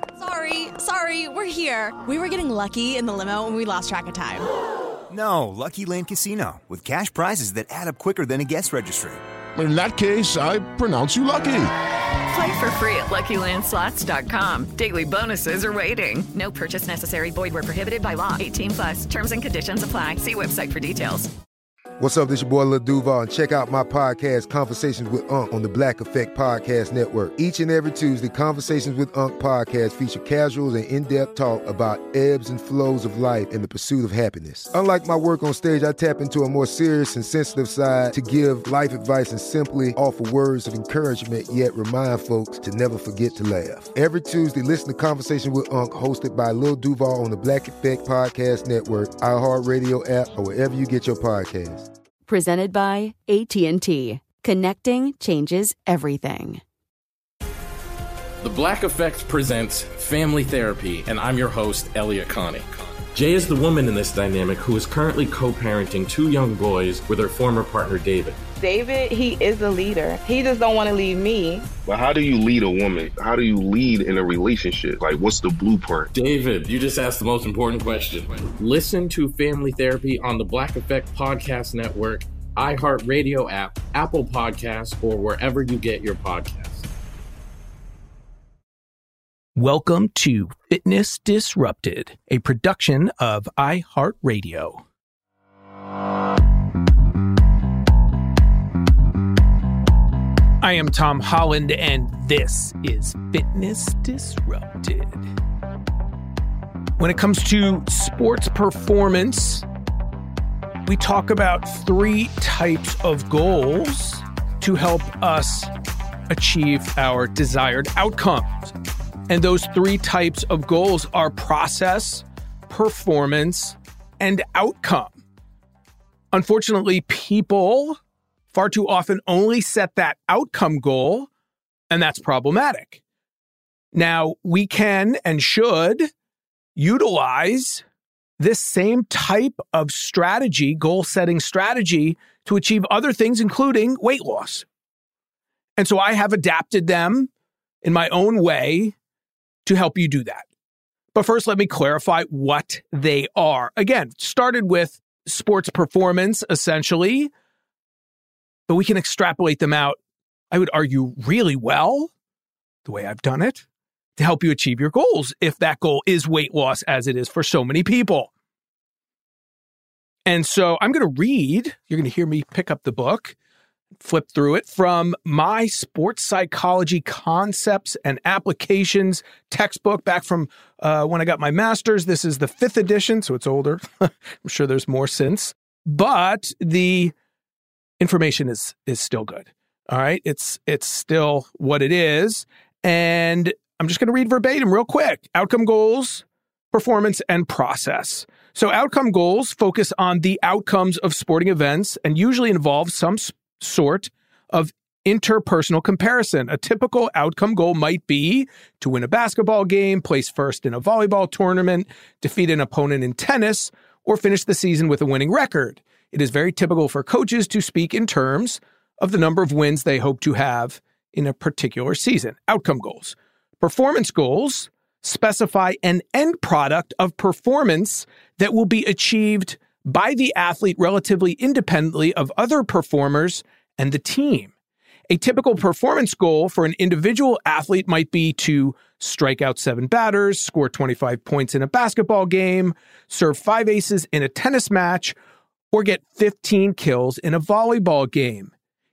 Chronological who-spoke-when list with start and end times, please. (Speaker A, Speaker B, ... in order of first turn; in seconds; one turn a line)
Speaker A: 0.2-4.5
Speaker B: 5.1-9.2
Speaker C: 9.6-11.7
Speaker D: 12.3-21.3
Speaker E: 22.0-51.9
Speaker F: 52.3-56.6
Speaker G: 58.4-68.4
Speaker H: 68.6-71.7
Speaker I: 71.9-76.1
Speaker G: 76.1-86.9
Speaker J: 89.6-94.8
Speaker J: 100.6-105.3
Speaker J: 107.0-109.7
Speaker J: 110.9-115.7
Speaker J: 116.3-118.7
Speaker J: 119.3-125.2
Speaker J: 126.3-128.0
Speaker J: 128.5-131.3
Speaker J: 131.9-133.0
Speaker J: 133.9-136.1
Speaker J: 136.8-137.8
Speaker J: 138.4-144.7
Speaker J: 145.8-147.3
Speaker J: 147.8-148.9
Speaker J: 149.7-150.5
Speaker J: 151.1-157.3
Speaker J: 158.7-160.0
Speaker J: 160.5-162.1
Speaker J: 162.8-163.7
Speaker J: 164.2-168.3
Speaker J: 170.3-173.3
Speaker J: 174.0-187.1
Speaker J: 188.0-234.5
Speaker J: 235.1-245.2
Speaker J: 245.7-248.5